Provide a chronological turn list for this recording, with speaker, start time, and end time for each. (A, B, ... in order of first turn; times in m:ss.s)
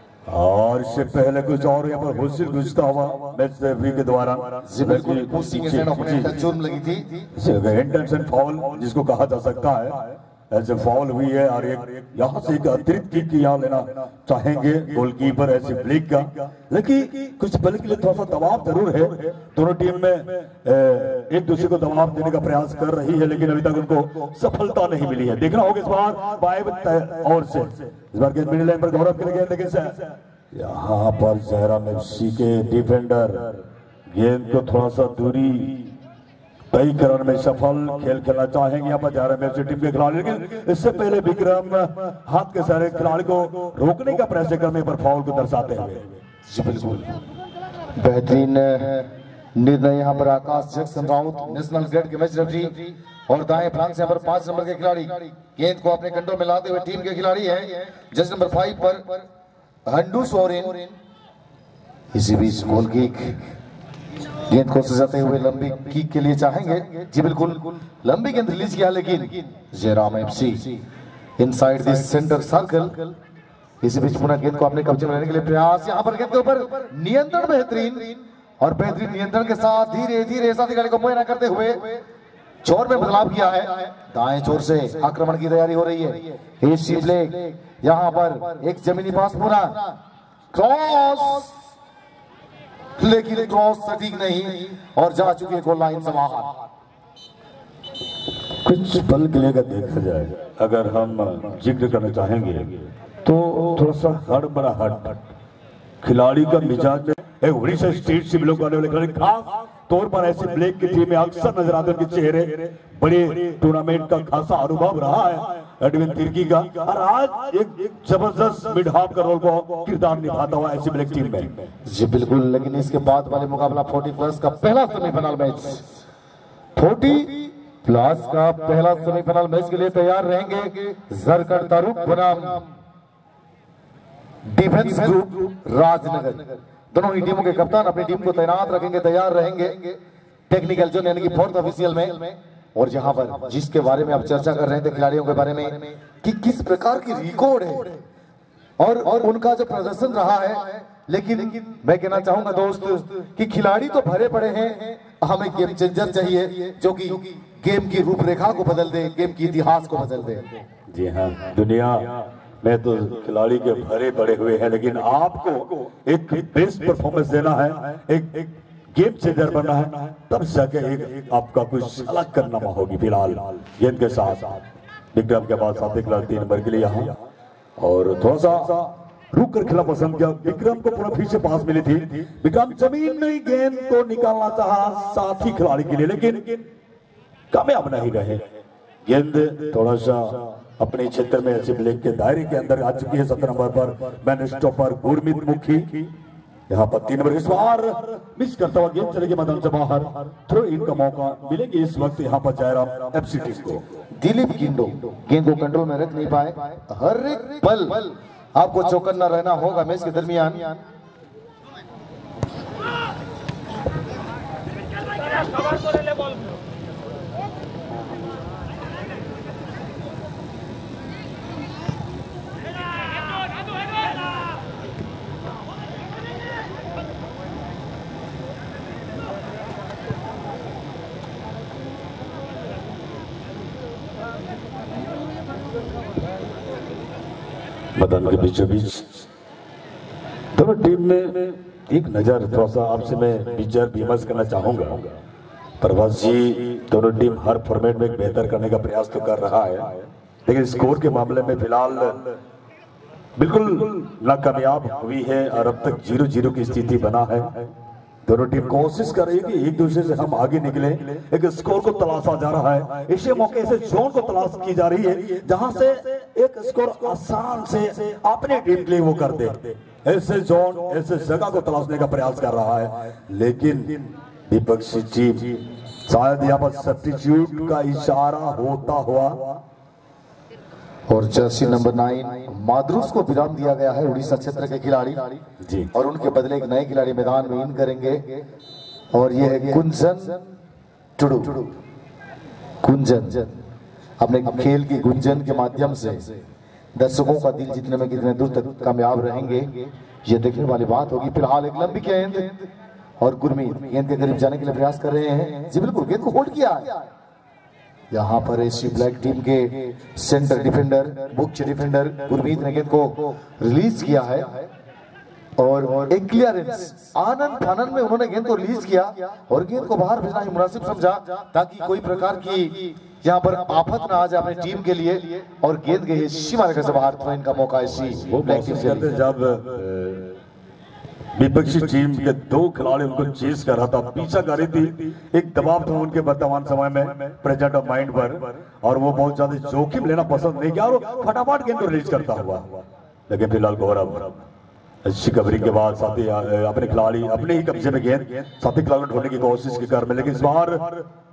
0:00.3-0:06.5 A
0:04.6-0:07.2 B
0:07.3-0:35.9 A
0:36.7-0:46.2 A
0:46.5-0:47.2 B
0:47.9-0:59.2 B
0:59.9-1:00.9 B
1:02.1-1:03.4 B
1:04.5-1:10.8 B
1:11.4-1:13.1 B
1:13.8-1:22.0 B
1:22.6-1:30.0 B
1:30.5-1:31.5 B
1:33.0-1:36.6 B
1:38.6-1:45.3 A
1:46.0-2:01.7 A
2:01.8-2:05.8 B
2:06.7-2:12.7 B
2:14.5-2:20.0 B
2:20.5-2:28.0 B
2:28.8-2:40.5 B
2:40.9-2:57.2 A
2:57.8-3:06.7 A
3:07.5-3:08.4 A
3:09.0-3:16.1 A
3:16.7-3:23.8 A
3:24.2-3:30.8 B
3:58.0-3:59.2 A
4:00.5-4:05.1 A
4:05.8-4:12.4 A
4:13.4-4:17.7 A
4:18.2-4:39.6 A
4:41.1-4:45.4 B
4:45.6-4:45.9 A
4:45.9-4:48.4 B
4:49.1-4:50.4 B
4:51.2-4:51.7 B
4:52.8-4:53.6 B
4:54.2-4:56.4 B
4:56.9-5:02.7 B
5:03.2-5:07.1 B
5:08.1-5:14.7 B
5:15.6-5:29.1 B
5:28.0-5:30.4 A
5:31.3-5:44.4 A
5:45.0-5:51.0 A